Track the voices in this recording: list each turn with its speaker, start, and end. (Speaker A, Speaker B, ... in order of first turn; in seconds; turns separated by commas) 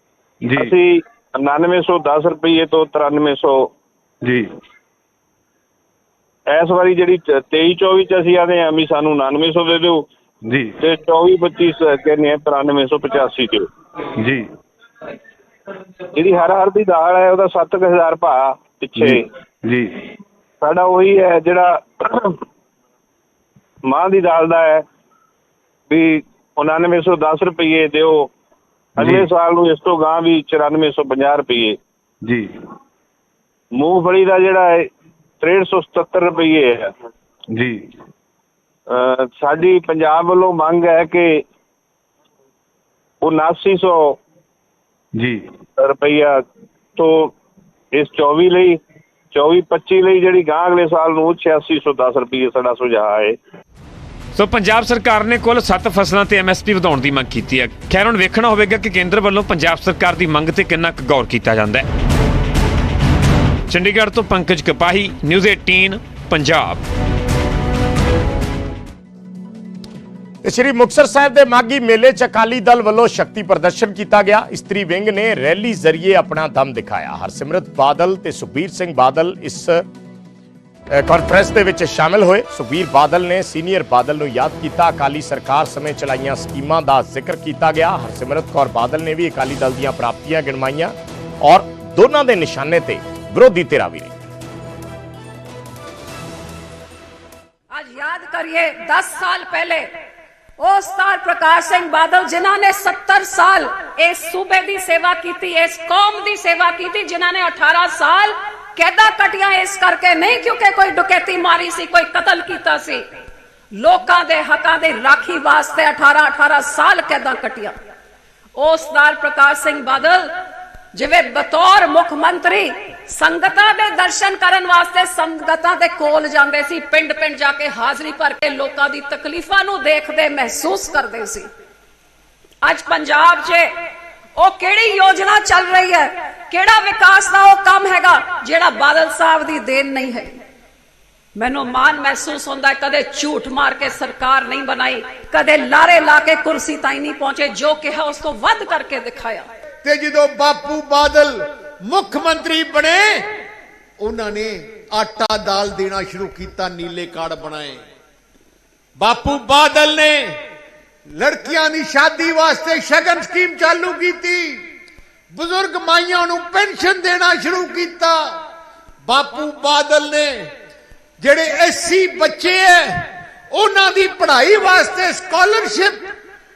Speaker A: 0.5-3.7, Speaker B: 4.2-4.5, Speaker A: 6.5-10.1, Speaker B: 10.5-10.7, Speaker A: 10.8-13.7, Speaker B: 14.2-14.5, Speaker A: 16.1-19.3, Speaker B: 19.0-20.1, Speaker A: 20.6-22.4, Speaker A: 23.9-24.9, Speaker A: 25.9-28.3, Speaker A: 29.0-31.8, Speaker B: 29.0-29.3, Speaker A: 33.8-36.9, Speaker B: 37.5-37.8, Speaker A: 38.9-41.5, Speaker A: 43.2-44.2, Speaker A: 45.8-46.4, Speaker A: 47.0-47.3, Speaker A: 47.9-48.8, Speaker A: 49.3-53.4, Speaker C: 54.4-61.9, Speaker C: 63.7-66.8, Speaker D: 70.4-79.8, Speaker D: 80.9-94.2, Speaker E: 97.7-99.9, Speaker E: 100.6-113.0, Speaker E: 113.7-117.8, Speaker E: 118.6-120.3, Speaker E: 120.9-131.5, Speaker E: 132.6-133.7, Speaker E: 134.4-140.4, Speaker E: 141.4-149.5, Speaker F: 149.8-153.3, Speaker F: 154.0-157.8, Speaker F: 159.0-160.4, Speaker F: 161.1-164.6, Speaker F: 165.3-168.3, Speaker F: 169.1-170.5, Speaker F: 171.2-176.1